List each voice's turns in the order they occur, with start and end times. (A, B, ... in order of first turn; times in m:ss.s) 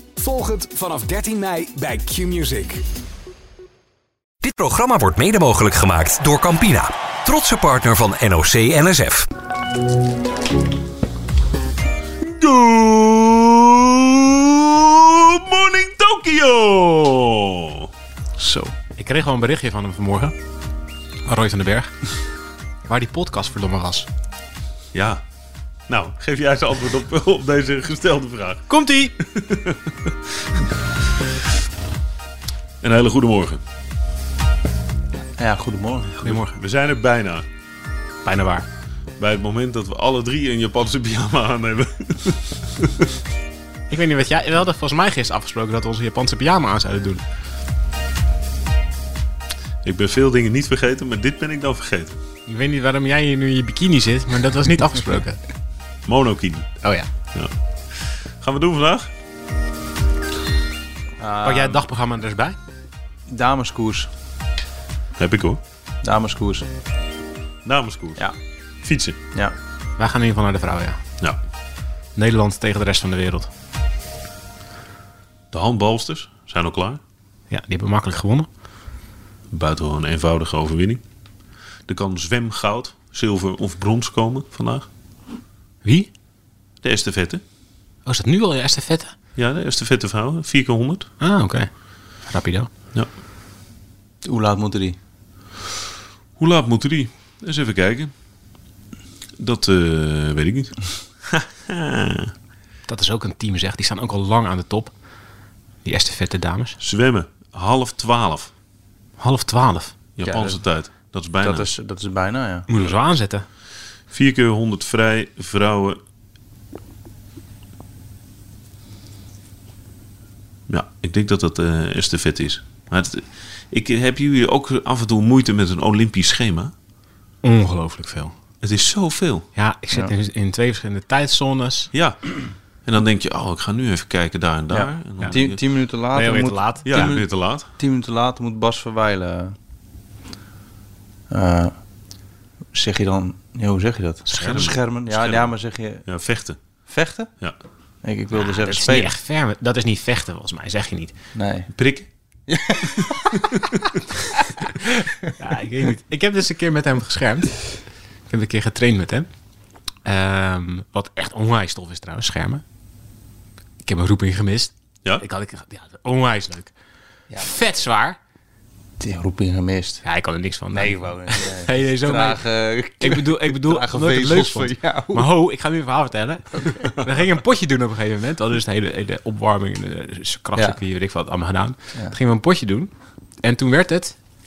0:00.4-0:02.8 A
0:04.4-0:09.3 B
0:12.2-0:17.9 C
0:18.4-0:18.7 D
0:19.0-0:20.3 E
0:21.2-0:21.9 E
0:22.8-0:24.1 E
0:24.9-0:25.2 C
0:25.9-0:28.7 C
0:28.7-0:29.1 E
0:29.2-0:30.1 C
0:32.8-0:33.6 C
0:35.4-0:36.5 D
0:36.2-0:36.5 E
0:36.5-0:37.4 C
0:38.2-0:38.7 E
0:39.2-0:43.1 C
0:43.9-0:47.2 E
0:49.8-0:52.1 C
0:52.4-0:55.4 E
0:56.0-0:56.7 C
0:56.8-0:57.1 E
0:57.3-0:59.1 C
1:01.2-1:01.8 D
1:01.4-1:02.6 E
1:03.3-1:04.1 D
1:05.2-1:05.6 C
1:06.0-1:06.7 D
1:07.6-1:08.3 C
1:08.8-1:09.2 C
1:10.0-1:11.0 E
1:12.1-1:13.5 E
1:15.5-1:17.0 C
1:17.5-1:18.5 E
1:19.5-1:21.0 C
1:21.9-1:24.9 C
1:25.8-1:26.1 E
1:26.8-1:27.4 C
1:28.0-1:29.1 E
1:29.4-1:31.1 C
1:31.2-1:31.7 E
1:32.2-1:32.7 E
1:34.2-1:35.0 D
1:36.4-1:38.1 C
1:39.4-1:42.3 C
1:42.9-1:44.9 E
1:45.8-1:46.8 E
1:46.8-1:48.5 C
1:49.2-1:49.9 E
1:50.2-1:51.7 C
1:50.2-1:50.6 D
1:51.4-1:52.7 D
1:52.7-1:53.4 E
1:54.1-1:56.0 C
2:00.7-2:06.7 C
2:07.4-2:08.3 E
2:08.6-2:09.5 C
2:09.5-2:11.9 E
2:11.9-2:15.6 C
2:14.7-2:19.5 D
2:16.1-2:16.9 E
2:16.8-2:17.7 C
2:21.3-2:21.7 D
2:22.7-2:26.0 D
2:24.2-2:24.8 E
2:24.3-2:26.6 C
2:26.9-2:27.3 D
2:28.0-2:29.1 D
2:28.3-2:31.1 E
2:31.4-2:31.7 D
2:31.7-2:32.1 C
2:32.5-2:33.7 D
2:35.4-2:39.3 E
2:40.0-2:42.6 E
2:43.8-2:46.7 E
2:47.4-2:48.2 E
2:49.0-2:50.0 D
2:50.0-2:52.4 E
2:50.7-2:55.3 D
2:53.0-3:02.9 E
3:03.4-3:04.2 E